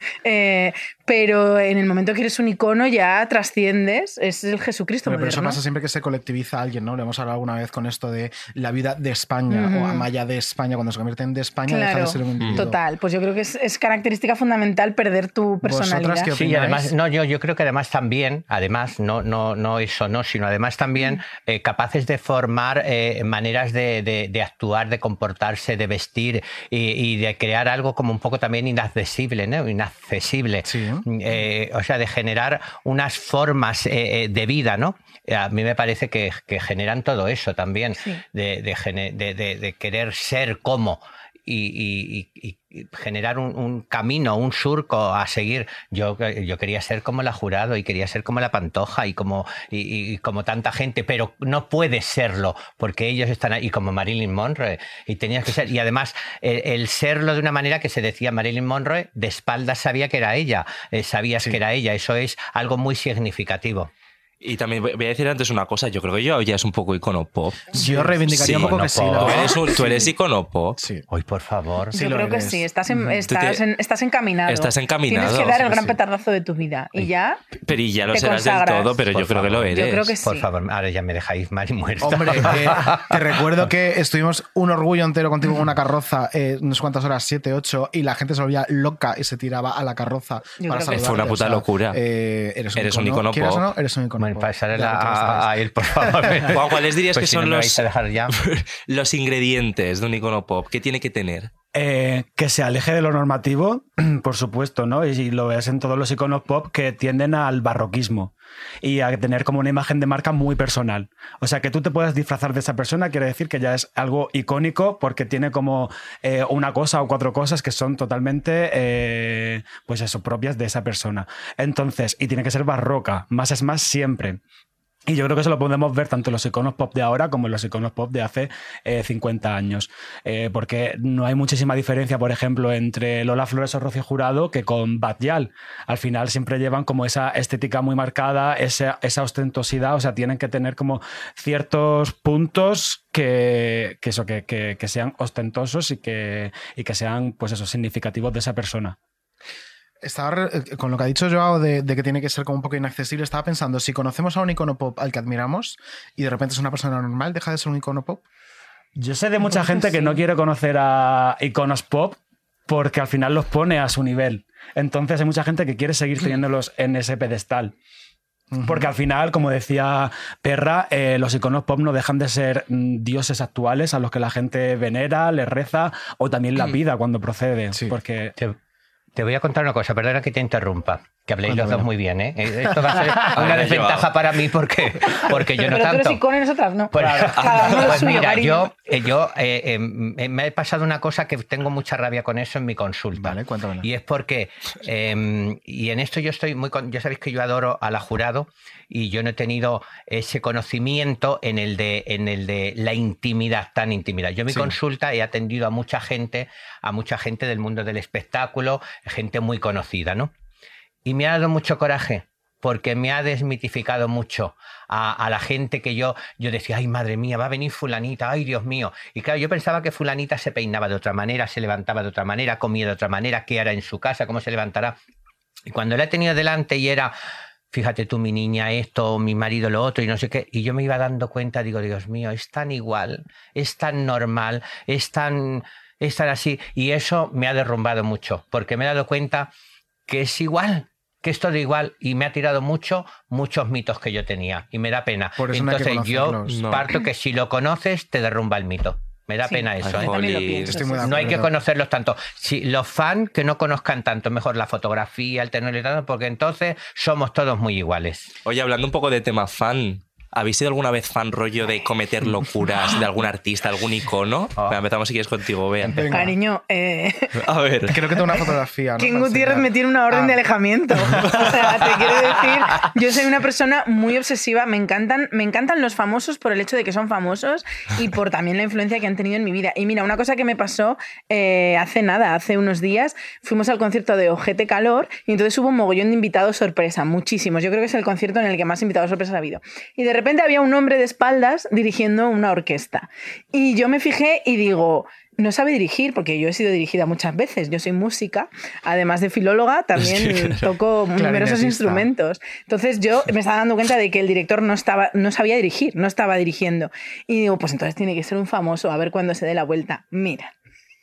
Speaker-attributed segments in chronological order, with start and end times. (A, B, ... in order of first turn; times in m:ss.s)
0:00.2-0:05.6 A
0:05.0-0:12.8 B
0:09.5-0:10.0 A
0:11.7-0:16.3 A
0:15.6-0:16.9 B
0:16.3-1:03.9 C
0:30.6-0:31.1 B
1:04.4-1:07.8 D
1:07.7-1:10.1 B
1:07.8-1:09.6 C
1:08.3-1:10.8 D
1:10.8-1:11.0 B
1:11.1-1:12.0 C
1:11.9-1:13.0 B
1:11.9-1:17.4 A
1:13.3-1:13.6 D
1:14.5-1:15.7 D
1:17.6-1:20.1 D
1:18.1-1:18.9 A
1:19.2-1:23.1 C
1:19.7-1:20.5 A
1:22.0-1:36.4 B
1:30.6-1:31.3 A
1:30.9-1:32.0 D
1:32.8-1:33.6 D
1:34.2-1:38.3 C
1:36.5-1:41.5 D
1:41.7-2:04.4 E
2:05.1-2:29.0 E
2:30.0-2:38.2 B
2:39.0-2:47.7 E
2:48.5-2:48.9 B
2:48.6-2:58.3 E
2:59.1-3:06.2 C
3:01.4-3:01.9 B
3:03.2-3:04.1 D
3:05.7-3:08.7 A
3:06.9-3:30.3 C
3:07.0-3:07.4 E
3:07.4-3:07.8 D
3:13.1-3:13.9 B
3:24.5-3:24.7 B
3:31.0-3:45.0 C
3:45.7-3:47.1 C
3:47.7-3:59.5 C
4:00.1-4:10.1 C
4:05.4-4:06.7 B
4:06.5-4:06.9 D
4:09.4-4:11.3 A
4:09.8-4:10.8 D
4:10.7-4:11.5 B
4:11.0-4:18.3 C
4:18.4-4:26.1 D
4:25.8-4:26.3 B
4:26.1-4:27.3 A
4:27.4-4:28.0 D
4:27.9-4:30.4 B
4:29.0-5:10.5 A
4:31.1-4:31.4 B
5:00.0-5:00.7 D
5:01.2-5:02.1 B